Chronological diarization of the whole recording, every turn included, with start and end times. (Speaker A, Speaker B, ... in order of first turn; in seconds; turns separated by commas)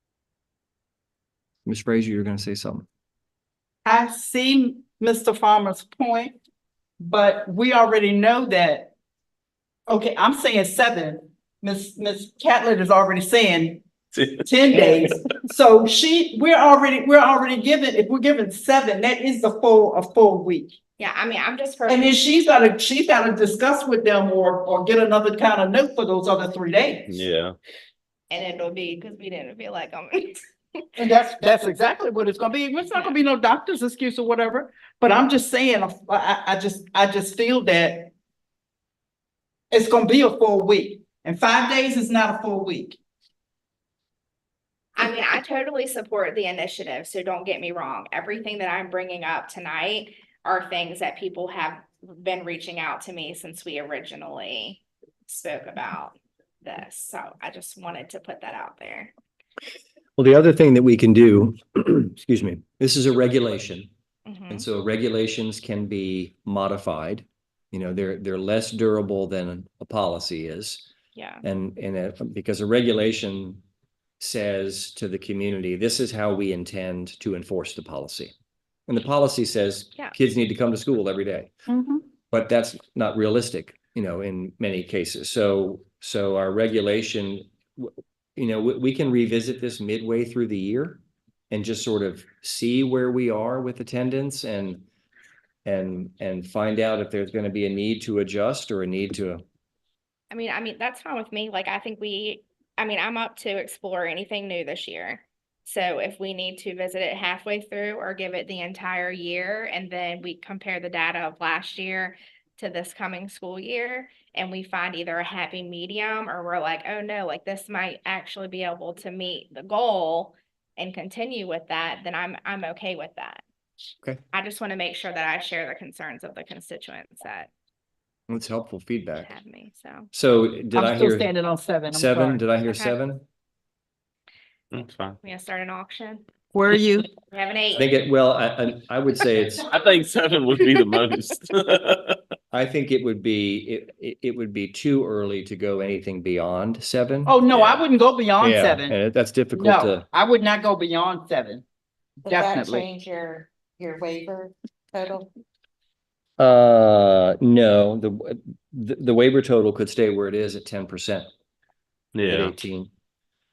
Speaker A: 1.7-2.9, Speaker B: 3.9-6.4, Speaker B: 7.0-8.9, Speaker B: 9.9-13.8, Speaker C: 14.1-15.2, Speaker B: 14.4-20.8, Speaker D: 21.0-22.2, Speaker B: 21.9-27.2, Speaker C: 27.1-27.6, Speaker D: 28.3-31.0, Speaker B: 31.0-38.1, Speaker D: 32.9-33.1, Speaker B: 39.7-43.0, Speaker D: 45.0-59.1, Speaker A: 60.2-63.9, Speaker D: 64.3-64.7, Speaker A: 64.5-70.8, Speaker D: 71.2-71.4, Speaker A: 71.4-73.6, Speaker A: 74.2-78.3, Speaker A: 78.9-81.5, Speaker B: 81.7-82.0, Speaker A: 82.3-94.8, Speaker A: 95.7-99.4, Speaker D: 100.3-123.4, Speaker D: 124.3-127.5, Speaker A: 128.3-129.3, Speaker D: 129.2-130.1, Speaker A: 130.1-131.3, Speaker B: 130.7-132.4, Speaker A: 131.9-133.2, Speaker D: 132.6-133.0, Speaker C: 134.7-135.2, Speaker D: 135.2-136.3, Speaker B: 136.5-137.1, Speaker D: 137.2-137.8, Speaker A: 137.7-139.7, Speaker C: 139.7-142.2, Speaker A: 142.5-147.5, Speaker B: 147.3-148.9, Speaker A: 148.4-150.1, Speaker B: 149.5-151.6, Speaker E: 152.2-155.3, Speaker B: 152.3-152.9, Speaker A: 156.4-161.3, Speaker C: 162.1-162.5, Speaker A: 162.2-162.9